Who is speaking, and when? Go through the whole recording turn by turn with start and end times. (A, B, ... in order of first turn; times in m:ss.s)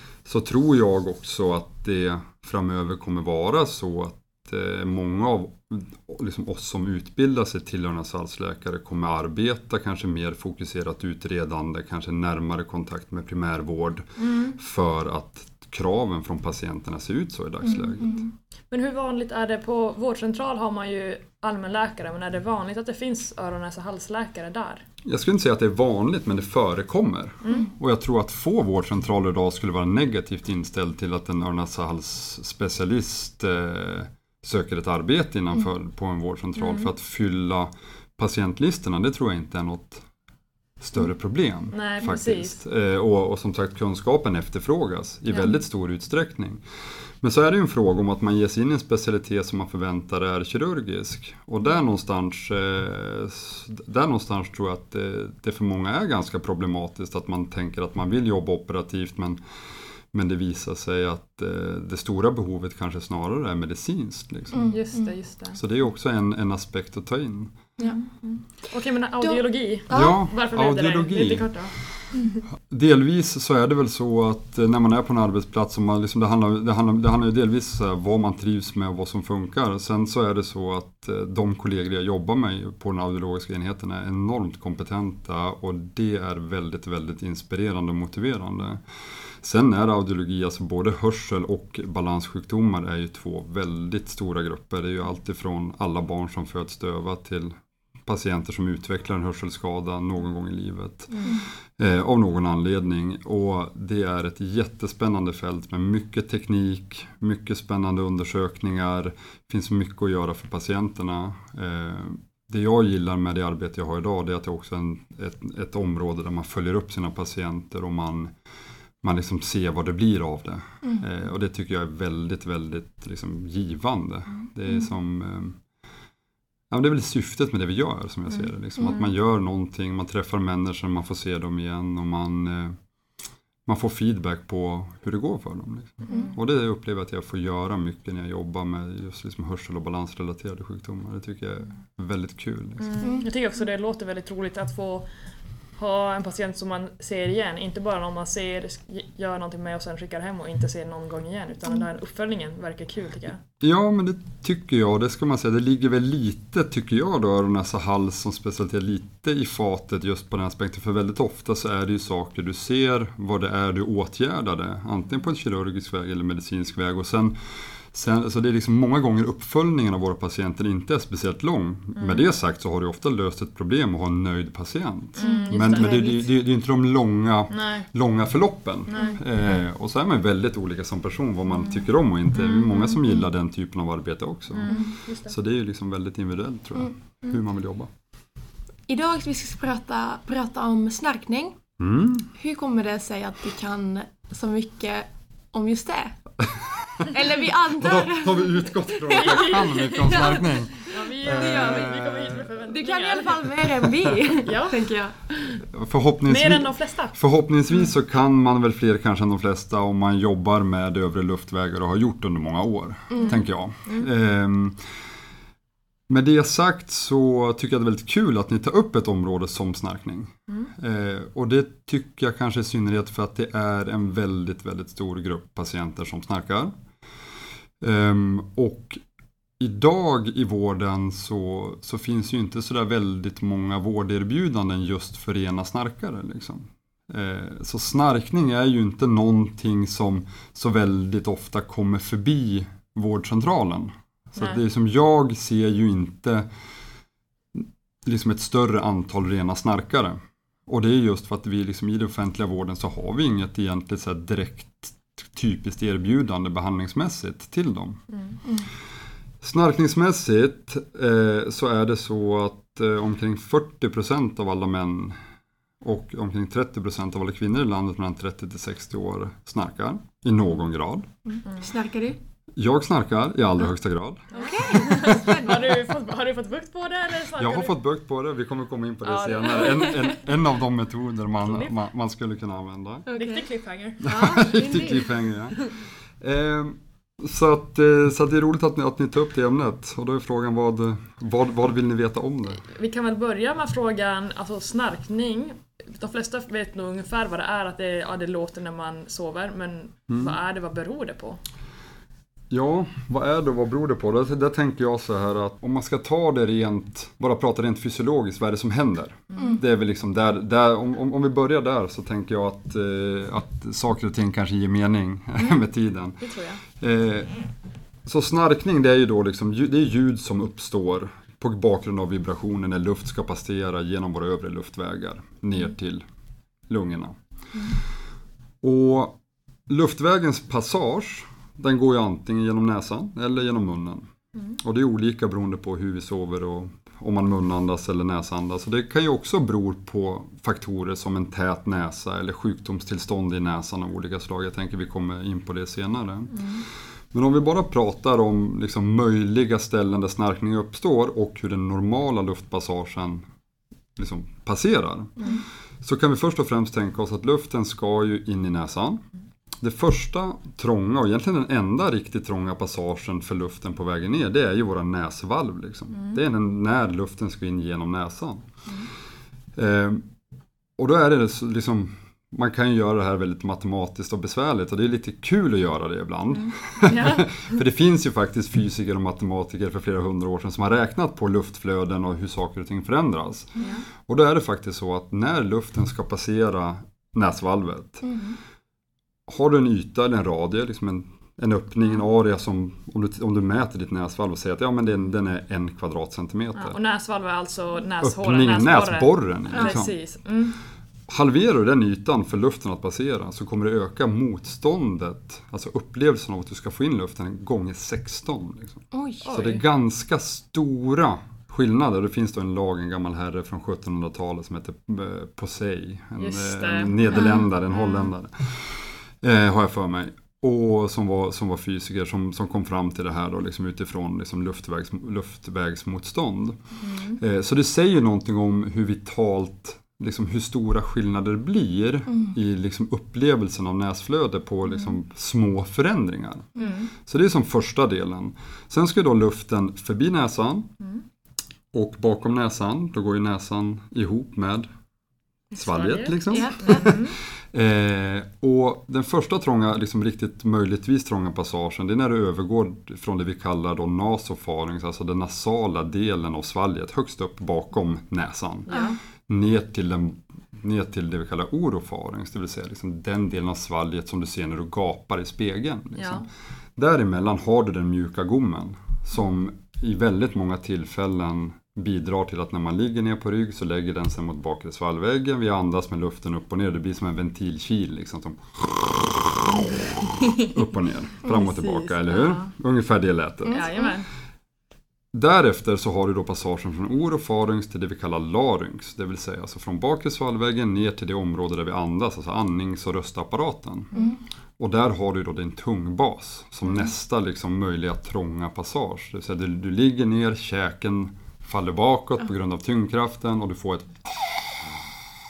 0:00.2-0:18.2 A
0:14.2-0:14.6 B
0:17.8-0:18.2 C
0:18.7-0:24.8 B
0:25.0-0:40.1 A
0:27.4-0:27.7 B
0:36.6-0:36.9 B
0:40.8-0:46.6 A
0:41.7-0:42.6 B
0:47.2-0:59.4 A
1:00.1-1:04.8 A
1:04.5-1:05.1 C
1:04.7-1:05.6 B
1:05.6-1:07.5 A
1:07.8-1:11.7 B
1:09.2-1:10.2 C
1:09.9-1:11.5 A
1:12.2-1:12.4 C
1:12.7-1:28.8 A
1:29.4-1:58.4 A
1:41.1-1:41.4 B
1:59.0-2:05.6 A
2:06.7-2:12.8 A
2:13.7-2:22.9 A
2:16.1-2:16.3 B
2:22.8-2:25.1 B
2:25.8-2:33.4 B
2:33.6-3:07.9 A
2:52.0-2:52.2 B
2:55.2-2:56.3 B
2:55.2-2:55.9 C
2:57.5-2:57.9 B
2:58.9-2:59.2 B
3:02.4-3:03.0 B
3:04.5-3:05.3 B
3:08.9-3:11.6 C
3:11.8-3:12.3 A
3:12.4-3:16.2 C
3:16.4-3:17.1 A
3:17.1-3:25.6 C
3:17.8-3:22.4 A
3:19.1-3:23.4 B
3:24.4-3:24.8 B
3:25.7-3:34.8 A
3:26.3-3:27.2 B
3:33.1-3:33.4 C
3:33.2-3:34.1 B
3:36.1-3:46.7 A
3:47.8-3:49.0 A
3:49.6-4:06.5 A
4:07.5-4:18.0 A
4:19.4-4:25.2 A
4:25.8-4:31.1 A
4:31.4-4:32.2 C
4:32.6-4:34.8 A
4:34.3-4:35.7 C
4:34.3-4:37.8 B
4:37.4-4:43.1 A
4:39.0-4:40.1 B
4:41.4-4:41.8 B
4:43.1-4:43.5 C
4:43.1-4:44.8 B
4:44.0-4:45.7 C
4:44.0-4:52.6 A
4:52.6-5:01.4 B
5:00.1-5:00.4 A
5:02.5-5:17.4 A
5:09.3-5:09.6 B
5:16.2-5:16.6 B
5:18.0-5:26.0 A
5:26.7-5:27.2 A
5:28.6-5:53.3 A
5:46.3-5:46.6 B
5:54.0-5:55.3 A
5:55.8-5:59.0 A
5:59.6-6:08.5 A
6:09.6-6:10.0 A
6:10.8-6:28.0 A
6:16.9-6:17.3 B
6:28.0-6:28.4 C
6:29.3-6:36.8 A
6:36.6-6:40.6 B
6:38.0-6:39.9 A
6:39.6-6:39.8 C
6:41.1-7:06.6 A
6:48.9-6:49.2 C
6:49.2-6:49.6 B
6:56.2-6:58.1 B
6:57.1-6:57.4 C
7:06.8-7:07.2 B
7:07.2-7:20.7 A
7:16.6-7:16.9 B
7:21.7-7:24.7 A
7:25.5-7:27.2 B
7:25.6-7:38.7 A
7:26.3-7:26.9 C
7:38.7-7:39.0 B
7:39.3-7:46.2 A
7:46.0-7:46.2 B
7:46.8-8:03.7 A
8:01.3-8:02.5 B
8:03.4-8:03.9 C
8:03.5-8:04.1 B
8:05.1-8:14.0 A
8:14.6-8:24.9 A